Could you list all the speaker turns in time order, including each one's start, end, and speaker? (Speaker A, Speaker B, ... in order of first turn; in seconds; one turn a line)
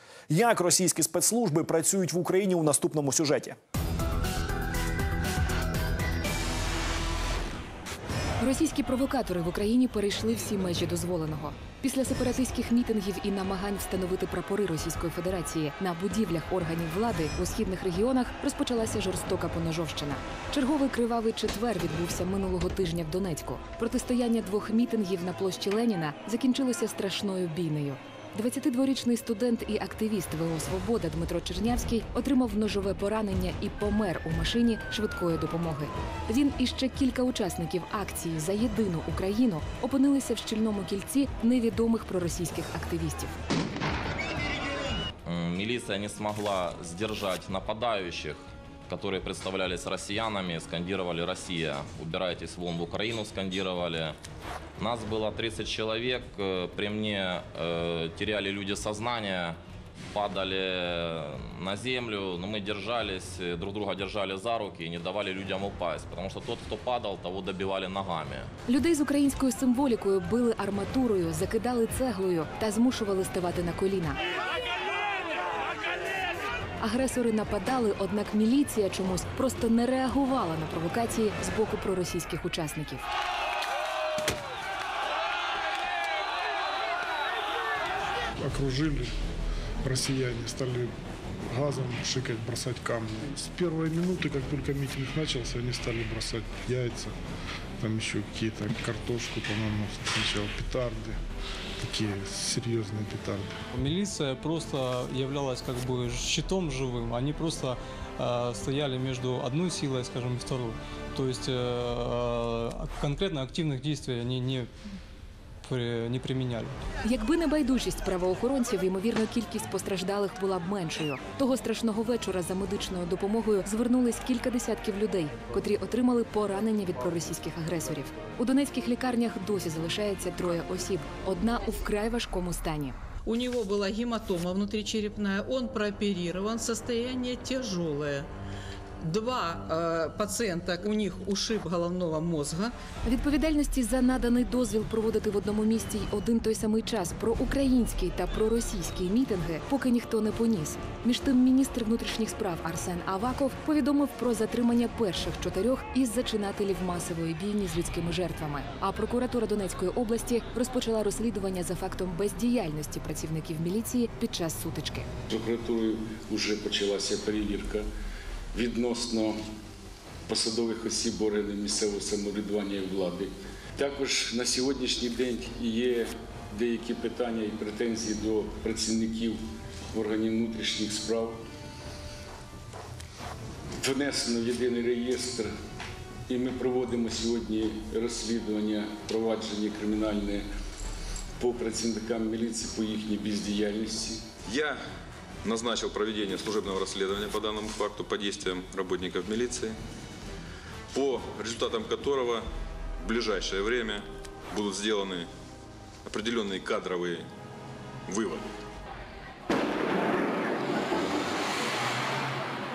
Speaker A: 0.3-3.5
Speaker B: 8.4-43.3
Speaker C: 45.2-54.1
Speaker C: 54.8-59.6
Speaker C: 60.1-68.5
Speaker B: 68.7-74.2
Speaker B: 76.8-83.0
Speaker D: 88.4-89.1
Speaker D: 89.8-90.9
Speaker D: 91.5-97.1
Speaker D: 97.8-101.2
Speaker D: 101.8-103.5
Speaker E: 103.7-114.7
Speaker E: 115.6-116.7
Speaker B: 117.0-132.9
Speaker F: 133.3-138.3
Speaker F: 139.0-142.7
Speaker B: 143.0-165.1
Speaker G: 165.3-167.8
Speaker G: 168.5-169.4
Speaker G: 170.3-179.4
Speaker G: 179.9-181.4
Speaker G: 183.8-185.5
Speaker G: 186.3-190.4
Speaker G: 191.4-194.2
Speaker H: 194.4-194.8
Speaker H: 195.4-199.8
Speaker H: 200.9-202.4
Speaker H: 203.0-205.3
Speaker H: 206.0-207.3
Speaker H: 208.1-208.4